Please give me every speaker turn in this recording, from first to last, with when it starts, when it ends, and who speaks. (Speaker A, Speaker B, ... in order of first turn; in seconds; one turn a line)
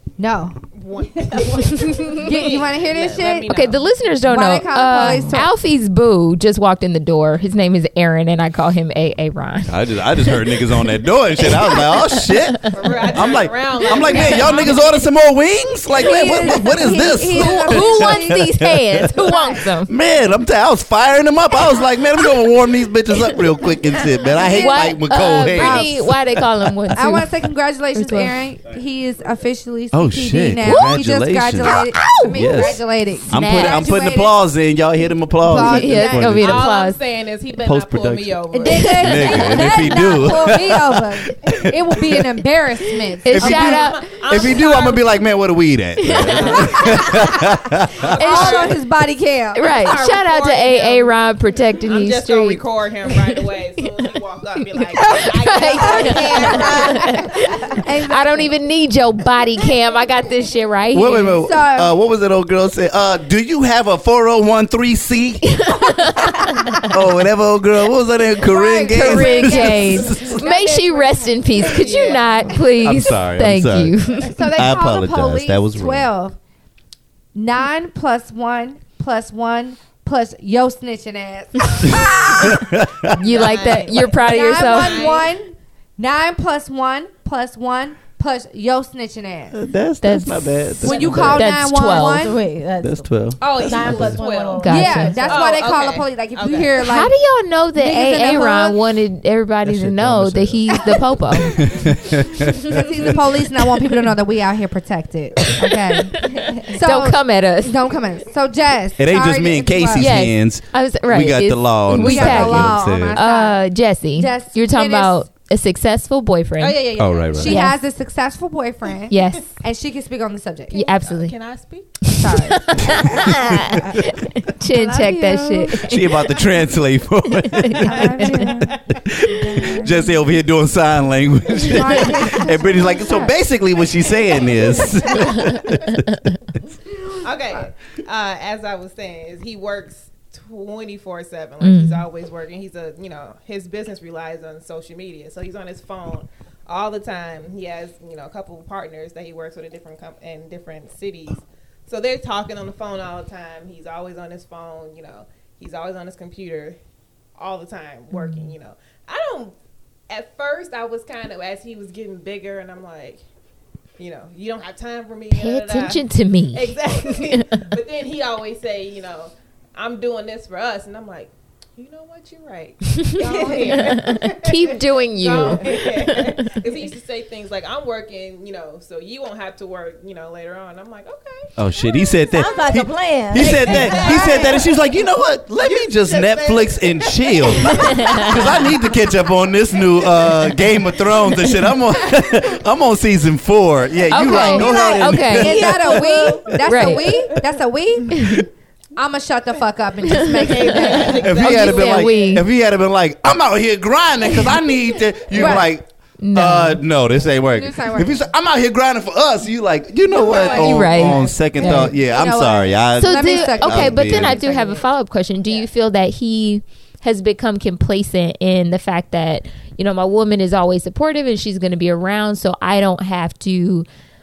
Speaker A: 0.2-0.6
Speaker B: 0.7-3.9
Speaker A: 2.1-3.5
Speaker C: 3.5-12.5
Speaker A: 4.2-5.5
Speaker D: 9.7-19.2
Speaker B: 12.7-15.0
Speaker C: 14.1-14.7
Speaker A: 16.0-18.4
Speaker C: 17.3-19.9
Speaker A: 19.1-19.6
Speaker D: 19.8-26.9
Speaker C: 24.5-27.3
Speaker A: 25.5-26.1
Speaker A: 26.9-34.4
Speaker C: 27.9-28.4
Speaker D: 29.9-36.7
Speaker C: 30.6-31.0
Speaker C: 31.9-32.6
Speaker C: 33.3-33.9
Speaker A: 35.4-36.4
Speaker C: 35.5-37.0
Speaker B: 36.4-40.0
Speaker D: 37.6-42.2
Speaker A: 38.5-43.8
Speaker C: 43.2-44.0
Speaker D: 43.3-48.5
Speaker B: 43.4-45.2
Speaker C: 46.0-47.0
Speaker B: 46.2-48.8
Speaker A: 48.0-49.8
Speaker C: 48.2-48.6
Speaker C: 49.5-52.6
Speaker B: 49.7-51.3
Speaker B: 51.8-57.4
Speaker C: 54.7-61.4
Speaker A: 55.0-58.5
Speaker E: 56.0-57.0
Speaker D: 60.9-70.5
Speaker A: 61.2-61.9
Speaker C: 65.4-66.9
Speaker A: 68.4-72.2
Speaker C: 68.9-74.4
Speaker B: 71.6-72.5
Speaker D: 72.7-76.1
Speaker A: 74.2-76.4
Speaker A: 77.3-82.7
Speaker D: 81.8-83.2
Speaker C: 83.1-85.0
Speaker B: 83.2-85.3
Speaker A: 84.2-89.6
Speaker D: 89.5-91.5
Speaker C: 90.0-92.3
Speaker A: 90.8-92.4
Speaker E: 91.8-95.5
Speaker D: 92.8-94.2
Speaker B: 93.4-94.7
Speaker C: 94.6-95.2
Speaker A: 94.6-97.1
Speaker B: 95.2-96.9
Speaker C: 96.8-101.6
Speaker A: 97.8-98.8
Speaker D: 99.6-103.1
Speaker A: 102.5-110.1
Speaker C: 106.7-107.8
Speaker D: 109.0-113.2
Speaker C: 110.0-116.8
Speaker A: 112.0-113.6
Speaker A: 114.2-115.2
Speaker B: 116.6-117.6
Speaker D: 117.0-117.5
Speaker A: 117.3-120.8
Speaker C: 117.4-117.8
Speaker C: 119.1-119.5
Speaker C: 120.7-121.3
Speaker B: 120.7-122.1
Speaker C: 122.0-126.2
Speaker A: 122.2-123.3
Speaker A: 124.7-126.0
Speaker D: 125.8-128.3
Speaker C: 127.4-128.6
Speaker A: 127.8-130.1
Speaker B: 128.5-128.8
Speaker D: 128.9-136.3
Speaker A: 131.5-133.3
Speaker C: 135.4-135.9
Speaker B: 137.2-156.8
Speaker C: 141.6-142.0
Speaker B: 157.4-159.5
Speaker C: 158.1-158.5
Speaker B: 160.1-163.2
Speaker B: 164.0-182.7
Speaker C: 165.3-167.7
Speaker C: 172.9-176.6
Speaker D: 181.6-196.4
Speaker E: 182.3-184.6
Speaker B: 183.4-184.8
Speaker B: 185.6-188.8
Speaker C: 187.7-188.3
Speaker C: 194.1-195.7
Speaker A: 194.3-198.4
Speaker E: 194.3-196.6
Speaker C: 196.6-197.1
Speaker D: 198.2-198.4
Speaker A: 198.9-201.4
Speaker C: 200.1-202.4
Speaker B: 200.3-202.3
Speaker D: 201.2-214.4
Speaker A: 205.3-205.7
Speaker C: 205.4-205.6
Speaker C: 206.2-206.8
Speaker A: 207.5-208.3
Speaker B: 210.1-211.2
Speaker A: 210.2-211.1
Speaker C: 210.5-211.9
Speaker A: 211.6-214.8
Speaker C: 213.0-223.8